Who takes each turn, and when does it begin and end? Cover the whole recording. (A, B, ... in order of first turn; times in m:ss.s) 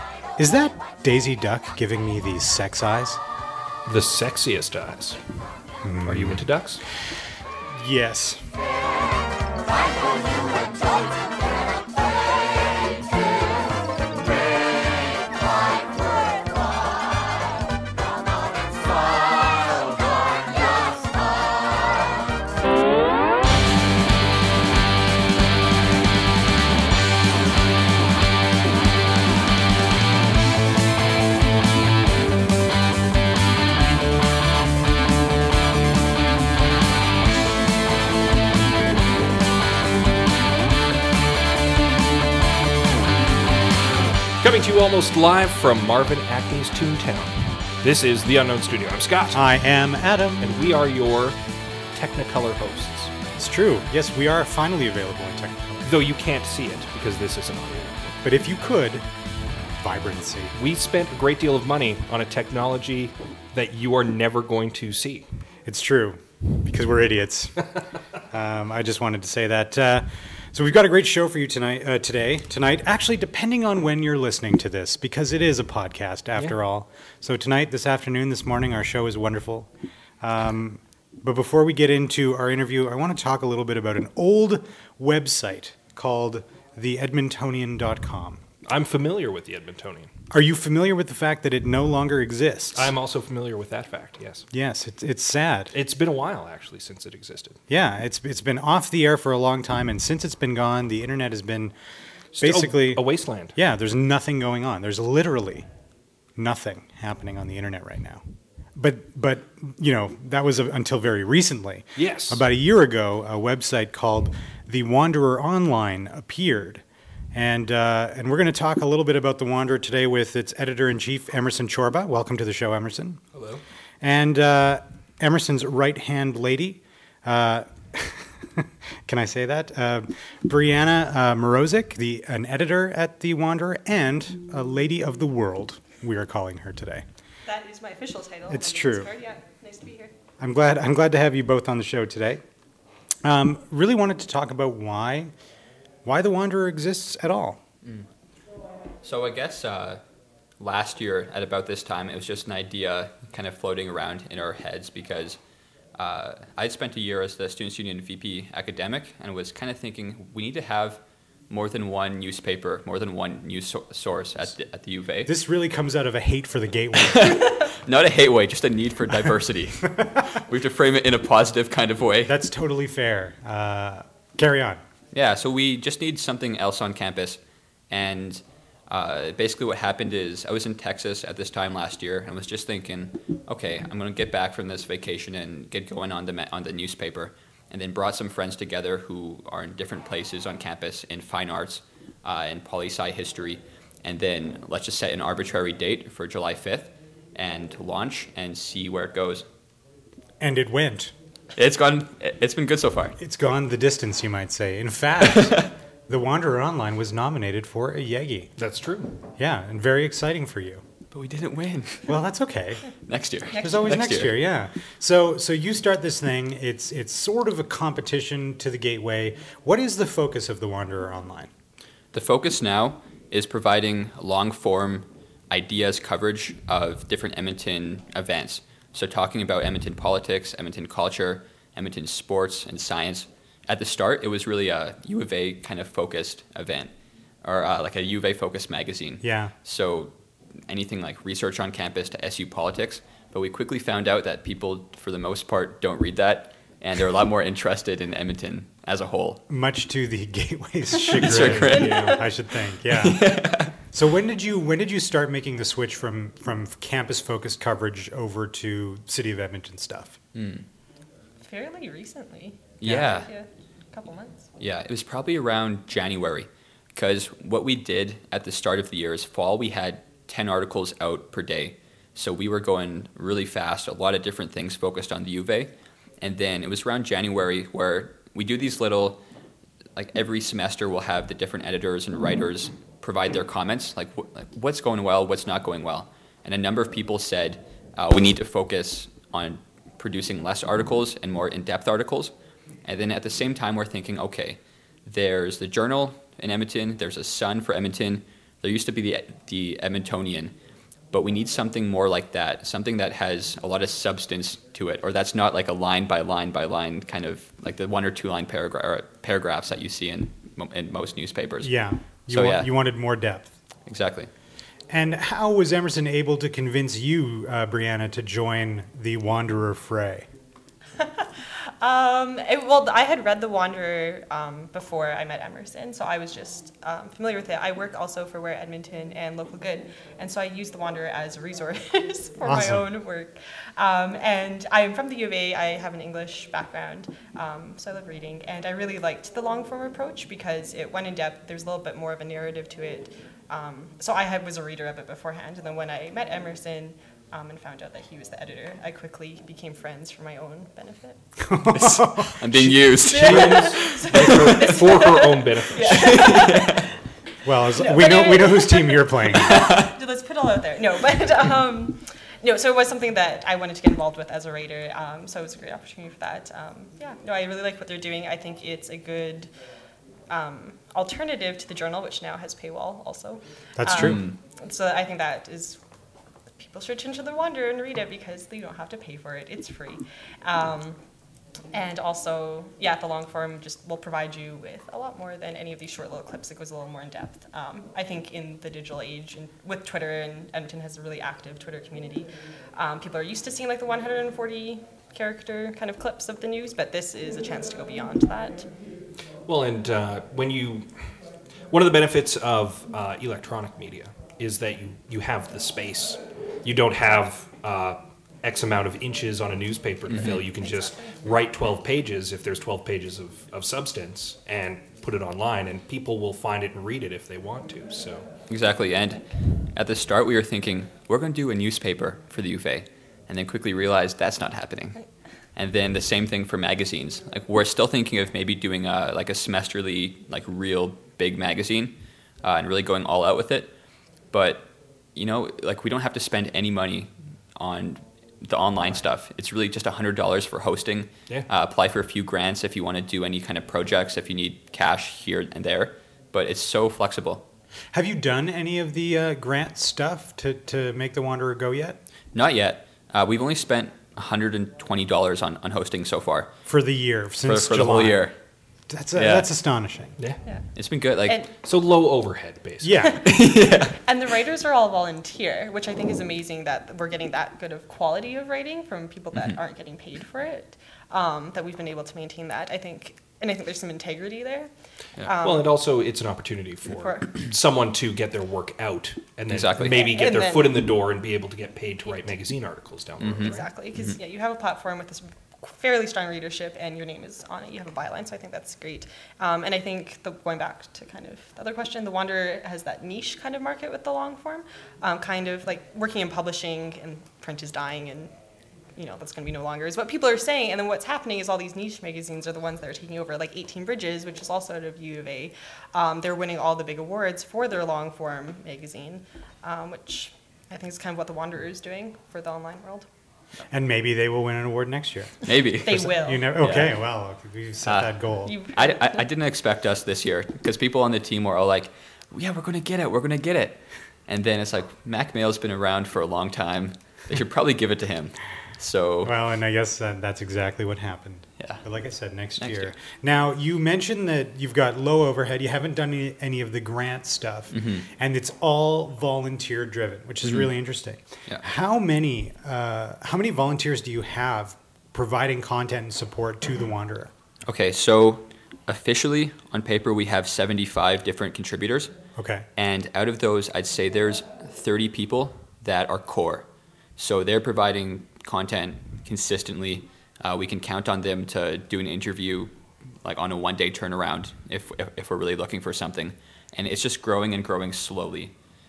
0:00.4-0:03.2 A
0:03.8-0:05.2 B
0:05.8-0:07.2 A
0:06.1-0:06.8 B
0:07.7-0:08.6 A
0:44.4-0:49.4 B
0:49.3-0:50.6 A
0:50.4-0:51.4 B
0:51.9-0:53.1 B
0:53.4-0:55.9 A
0:55.8-0:58.2 B
0:58.2-0:59.1 A
0:59.8-1:00.6 A
1:00.6-1:05.3 B
1:05.6-1:07.7 A
1:08.2-1:19.7 A
1:20.2-1:28.4 A
1:28.7-1:30.1 B
1:30.3-1:32.9 A
1:32.8-1:34.4 B
1:34.5-1:35.8 A
1:35.7-1:37.6 B
1:37.7-1:41.8 A
1:42.3-1:43.5 B
1:42.4-1:45.7 A
1:46.4-1:48.2 A
1:48.8-2:03.2 A
1:52.0-1:52.4 B
2:03.3-2:03.6 B
2:04.0-2:17.0 A
2:17.5-2:20.1 C
2:18.5-2:19.1 A
2:20.4-2:22.4 A
2:23.2-2:25.3 A
2:26.0-2:27.6 A
2:29.0-2:30.0 D
2:30.6-2:35.4 D
2:36.0-2:45.3 D
2:45.3-2:47.4 A
2:47.0-2:52.3 D
2:52.3-2:54.8 A
2:55.1-3:19.5 D
3:20.4-3:21.1 A
3:21.6-3:23.2 D
3:23.2-3:28.5 A
3:25.4-3:25.7 D
3:28.6-3:29.2 B
3:29.4-3:30.8 A
3:31.1-3:32.2 D
3:32.1-3:32.9 A
3:33.1-3:34.4 D
3:33.5-3:34.0 C
3:33.6-3:41.5 A
3:42.1-3:56.9 D
3:57.4-4:00.1 D
3:59.2-3:59.5 A
4:00.7-4:09.4 D
4:09.5-4:20.2 A
4:11.1-4:12.1 D
4:11.2-4:12.2 B
4:11.7-4:12.3 C
4:12.8-4:13.8 D
4:20.3-4:20.6 D
4:21.4-4:24.4 C
4:22.8-4:23.3 D
4:24.6-4:39.2 D
4:40.0-4:52.3 D
4:52.8-5:00.5 D
5:01.1-5:12.7 D
5:11.6-5:13.5 A
5:13.8-5:14.3 D
5:14.9-5:20.3 A
5:21.0-5:51.2 C
5:32.4-5:32.9 A
5:51.4-5:52.7 A
5:51.7-5:54.8 D
5:53.0-5:56.9 C
5:53.0-5:56.3 B
5:55.9-5:56.8 D
5:57.4-5:59.6 A
5:57.7-6:09.5 C
5:59.5-5:59.9 D
6:10.3-6:15.8 C
6:13.8-6:14.2 A
6:13.9-6:14.4 D
6:16.6-6:21.0 C
6:21.7-6:38.7 C
6:39.4-6:41.0 B
6:41.7-6:58.2 B
6:50.1-6:50.4 D
6:50.6-6:51.1 C
6:58.5-7:13.7 D
7:14.3-7:27.4 D
7:27.9-7:32.0 A
7:32.3-7:36.5 D
7:36.7-7:38.2 A
7:37.4-7:38.3 D
7:38.9-7:40.2 A
7:39.1-7:39.5 D
7:40.8-7:41.4 D
7:41.2-7:41.5 C
7:41.6-7:43.1 B
7:42.8-7:43.2 A
7:43.2-7:44.0 D
7:43.9-7:55.7 C
7:55.4-8:03.7 B
7:57.0-7:57.3 C
7:59.5-8:00.1 D
7:59.8-8:00.9 C
8:03.2-8:04.2 D
8:03.4-8:18.3 C
8:19.0-8:33.1 C
8:33.7-8:38.6 A
8:35.4-8:37.0 D
8:35.8-8:36.6 C
8:37.8-8:38.2 D
8:38.5-8:39.2 C
8:38.7-8:49.4 D
8:49.2-9:07.3 A
8:52.6-8:52.9 D
8:57.7-8:58.1 D
9:00.4-9:00.7 D
9:07.7-9:12.1 D
9:12.4-9:12.7 A
9:12.8-9:16.7 D
9:17.2-9:22.7 D
9:23.2-9:28.5 D